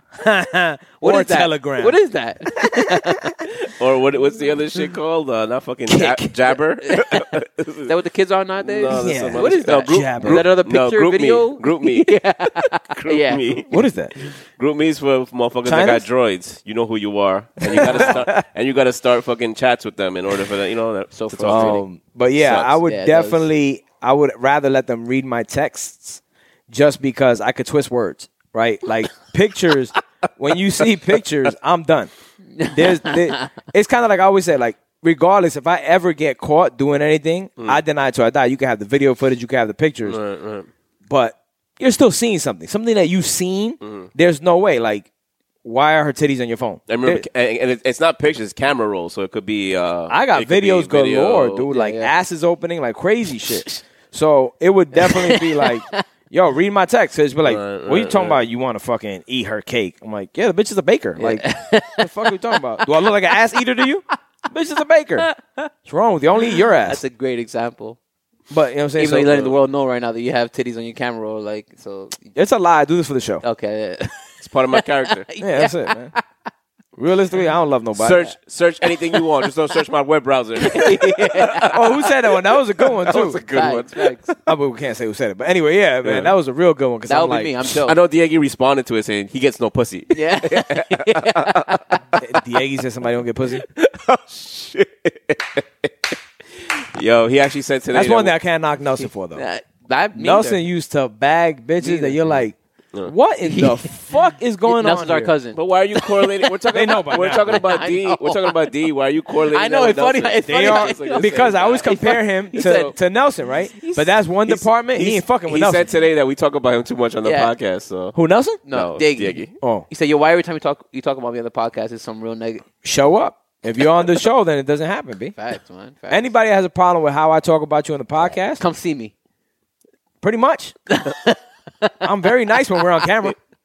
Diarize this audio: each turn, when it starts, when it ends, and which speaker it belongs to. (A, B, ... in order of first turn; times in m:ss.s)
0:00.2-0:01.9 A
0:01.0-0:03.7 B
0:02.6-0:03.2 A
0:03.8-0:07.9 C
0:05.9-0:06.3 A
0:06.8-0:13.6 B
0:08.6-0:21.8 C
0:08.9-0:10.5 A
0:13.7-0:14.1 A
0:15.6-0:16.0 A
0:17.6-0:18.4 A
0:17.8-0:18.2 B
0:21.1-0:21.8 B
0:21.4-0:32.1 A
0:22.4-0:22.8 C
0:22.8-0:23.5 B
0:32.6-0:33.5 B
0:32.7-0:40.2 A
0:40.0-0:40.7 C
0:41.1-0:45.1 A
0:43.8-0:44.1 C
0:45.6-0:47.2 A
0:46.9-0:51.6 C
0:50.1-1:01.4 A
0:51.7-0:52.1 B
0:55.0-0:56.0 B
0:57.4-0:58.4 C
1:01.2-1:03.6 B
1:02.0-1:05.3 A
1:05.2-1:05.7 B
1:05.8-1:07.0 A
1:06.4-1:08.0 B
1:08.5-1:09.5 A
1:09.0-1:12.3 B
1:12.3-1:13.4 A
1:13.4-1:16.2 B
1:14.4-1:15.3 C
1:15.4-1:16.1 A
1:17.0-1:18.3 A
1:17.9-1:21.9 C
1:18.8-1:19.5 B
1:20.6-1:22.1 B
1:21.6-1:23.4 A
1:22.8-1:24.4 C
1:23.2-1:24.3 B
1:24.4-1:27.7 A
1:26.0-1:26.3 C
1:27.1-1:28.0 B
1:27.8-1:32.2 C
1:30.1-1:32.0 B
1:32.2-1:33.6 A
1:33.5-1:36.2 C
1:36.7-1:38.3 C
1:37.9-1:39.4 A
1:39.3-1:40.6 B
1:40.1-1:45.3 A
1:41.8-1:42.4 B
1:43.4-1:48.7 B
1:45.5-1:51.9 C
1:46.7-1:47.6 A
1:49.4-1:52.9 B
1:50.5-1:55.9 A
1:52.5-1:52.9 C
1:53.7-1:54.1 B
1:54.5-1:58.1 C
1:57.2-1:57.5 B
1:58.1-1:58.6 A
1:58.7-2:02.6 B
1:58.7-1:59.5 C
1:59.6-1:59.8 A
2:02.8-2:05.3 A
2:05.3-2:06.3 B
2:06.1-2:08.6 A
2:08.6-2:09.1 B
2:10.2-2:10.7 A
2:10.9-2:11.9 B
2:12.0-2:13.4 A